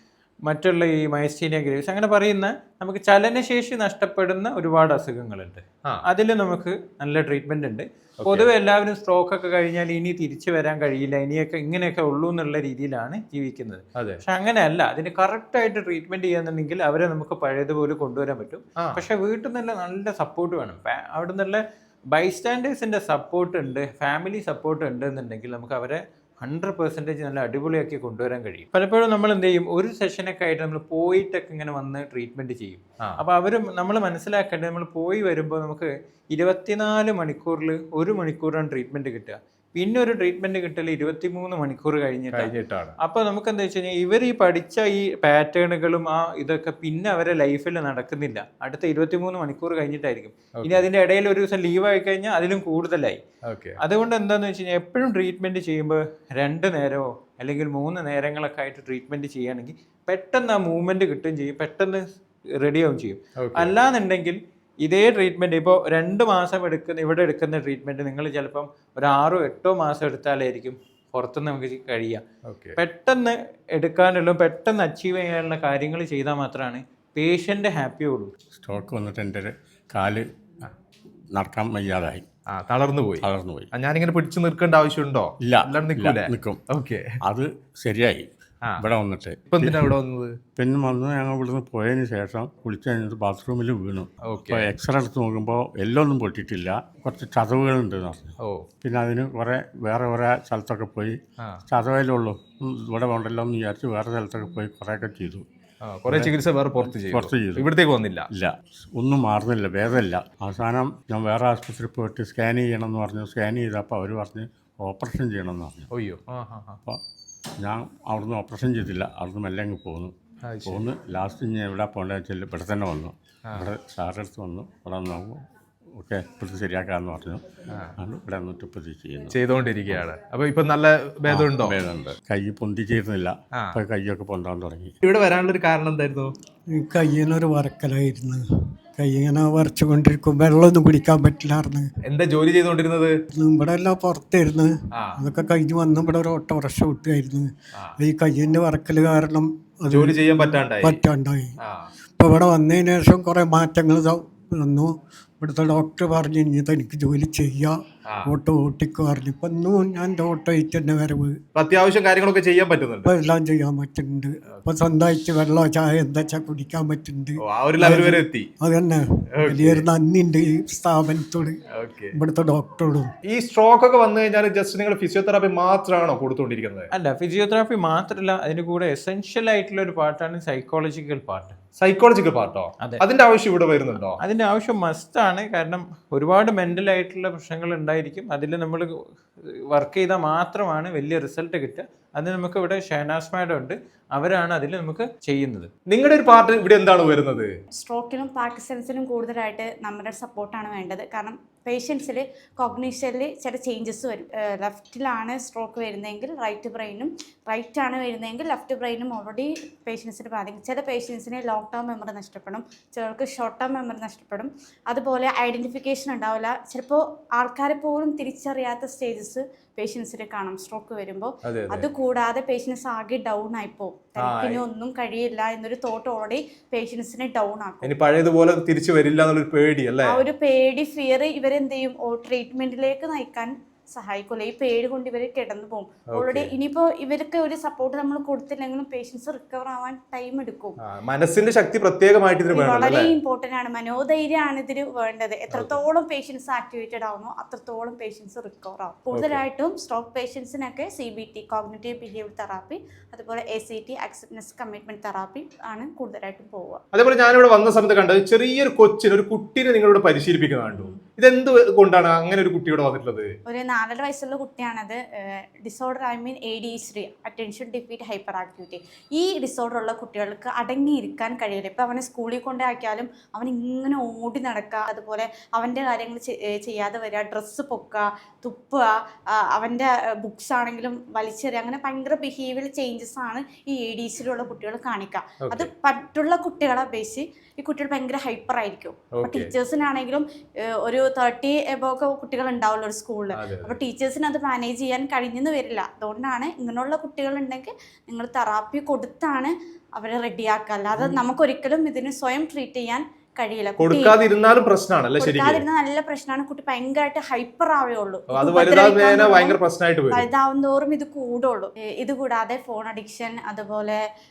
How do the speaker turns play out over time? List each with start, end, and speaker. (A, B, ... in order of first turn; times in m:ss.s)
0:00.4-0:53.2 A
0:08.2-0:08.5 B
0:14.0-0:14.2 B
0:42.3-0:42.9 B
0:50.6-0:50.8 B
0:53.5-0:53.8 B
0:53.8-1:02.0 A
1:02.6-1:12.2 A
1:03.4-1:03.7 B
1:12.4-1:12.8 B
1:12.8-1:18.3 A
1:18.6-1:20.2 C
1:21.3-1:22.2 C
1:22.5-1:27.0 B
1:23.2-1:23.7 C
1:25.4-1:26.6 C
1:27.2-1:28.3 C
1:28.8-1:29.9 C
1:29.5-1:30.3 B
1:30.6-1:45.4 C
1:34.2-1:34.6 B
1:38.4-1:38.6 B
1:45.8-1:48.3 B
1:46.1-1:47.8 C
1:48.3-1:55.9 C
1:55.9-1:56.8 B
1:57.6-2:00.1 C
2:00.4-2:00.8 B
2:00.6-2:05.4 C
2:06.0-2:07.4 C
2:08.0-2:09.4 C
2:09.3-2:11.8 B
2:11.3-2:14.9 C
2:13.5-2:13.8 B
2:15.0-2:16.3 B
2:16.7-2:21.9 D
2:22.0-2:23.2 B
2:23.3-2:31.5 D
2:24.9-2:25.2 B
2:29.9-2:31.0 B
2:31.6-2:31.9 B
2:32.2-2:41.4 D
2:38.0-2:38.3 B
2:41.5-2:43.1 B
2:43.0-2:51.6 D
2:47.4-2:48.5 B
2:49.3-2:49.8 B
2:51.7-2:52.1 B
2:52.1-2:53.1 D
2:53.2-2:56.9 B
2:56.9-3:01.6 A
3:01.8-3:04.2 B
3:04.2-3:08.9 A
3:09.7-3:15.7 A
3:15.9-3:17.5 B
3:17.8-3:48.0 E
3:41.4-3:41.9 B
3:44.2-3:44.6 B
3:47.8-3:50.2 B
3:50.0-4:00.8 E
3:56.1-3:56.5 B
4:00.8-4:03.2 B
4:02.5-4:16.8 E
4:05.5-4:05.8 B
4:09.1-4:09.4 B
4:16.9-4:23.3 B
4:23.4-4:50.2 E
4:45.4-4:45.7 B
4:49.1-4:49.5 B
4:50.8-5:04.2 E
4:53.3-4:53.8 B
5:03.8-5:05.6 B
5:05.2-5:09.6 E
5:08.3-5:10.2 B
5:10.1-5:14.0 E